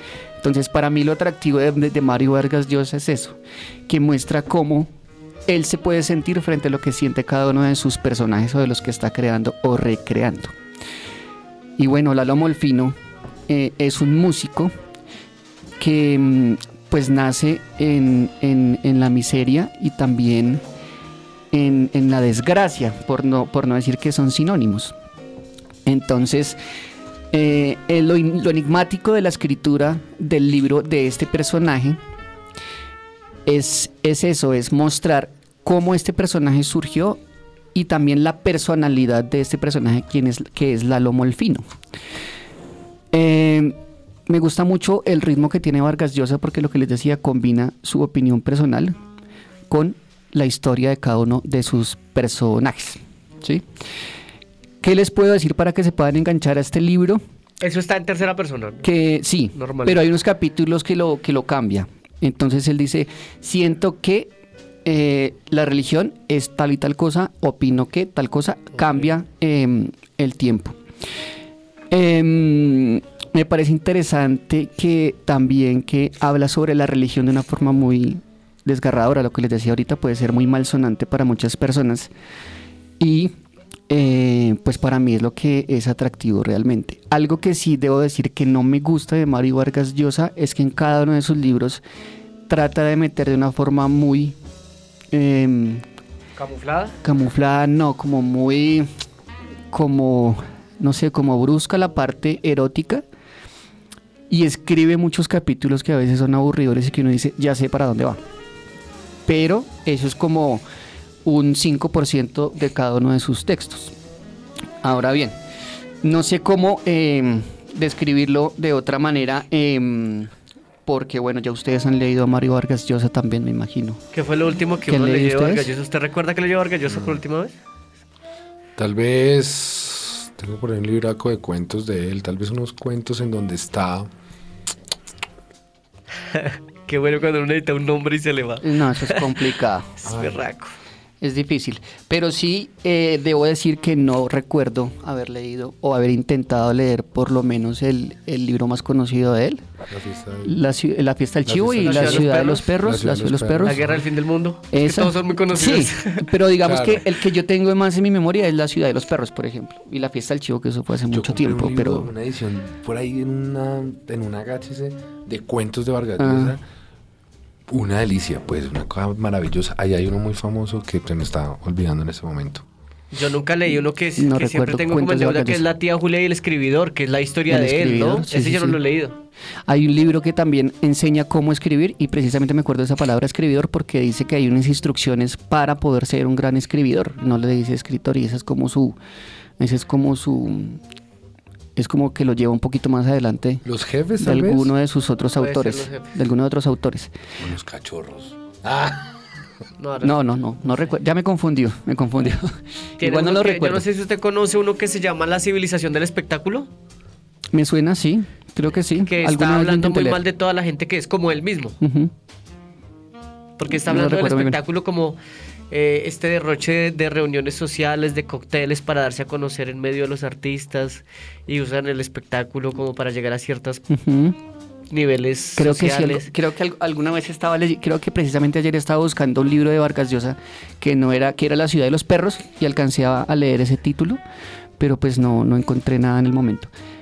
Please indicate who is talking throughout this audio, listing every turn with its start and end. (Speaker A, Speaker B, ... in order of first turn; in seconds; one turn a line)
Speaker A: 0.4-4.9
Speaker A: 5.5-10.5
Speaker A: 11.8-12.9
Speaker A: 13.5-14.7
Speaker A: 15.8-20.6
Speaker A: 21.5-24.9
Speaker A: 25.9-26.6
Speaker A: 27.3-32.0
Speaker A: 33.5-37.2
Speaker A: 37.7-41.7
Speaker A: 43.1-43.8
Speaker A: 44.3-49.0
Speaker A: 49.7-53.6
Speaker A: 54.8-57.2
Speaker B: 57.6-58.9
Speaker A: 58.8-64.3
Speaker B: 59.5-60.0
Speaker A: 64.8-70.8
Speaker A: 71.9-82.1
Speaker A: 83.0-83.3
Speaker A: 83.9-91.8
Speaker A: 92.5-94.3
Speaker A: 95.1-95.8
Speaker B: 96.4-97.0
Speaker A: 97.0-98.9
Speaker A: 99.7-103.0
Speaker A: 104.3-108.2
Speaker A: 109.3-110.6
Speaker A: 111.2-113.9
Speaker A: 114.8-115.4
Speaker A: 116.0-120.3
Speaker A: 120.8-124.0
Speaker B: 124.1-127.5
Speaker A: 124.9-125.7
Speaker C: 126.9-127.2
Speaker C: 128.8-134.1
Speaker B: 136.3-139.5
Speaker A: 138.6-140.1
Speaker B: 140.0-140.7
Speaker C: 140.1-140.4
Speaker A: 141.2-149.6
Speaker C: 149.9-150.6
Speaker A: 150.4-153.8
Speaker C: 151.4-154.0
Speaker B: 151.8-152.7
Speaker B: 153.6-156.3
Speaker A: 154.7-162.1
Speaker C: 156.6-157.0
Speaker C: 161.1-166.6
Speaker A: 166.2-166.6
Speaker C: 167.7-172.6
Speaker B: 173.1-179.2
Speaker A: 174.2-175.6
Speaker A: 177.5-178.8
Speaker A: 179.7-189.0
Speaker A: 189.6-190.8
Speaker A: 191.8-193.6
Speaker C: 193.6-194.7
Speaker A: 194.2-197.1
Speaker B: 195.4-196.1
Speaker C: 197.4-199.2
Speaker B: 199.8-200.8
Speaker A: 200.0-203.8
Speaker B: 203.0-206.7
Speaker A: 207.5-210.2
Speaker B: 209.0-211.8
Speaker A: 211.8-212.1
Speaker B: 213.6-215.2
Speaker A: 213.7-214.6
Speaker B: 215.7-223.8
Speaker A: 223.9-224.4
Speaker B: 224.9-226.3
Speaker A: 225.6-234.2
Speaker A: 234.8-236.7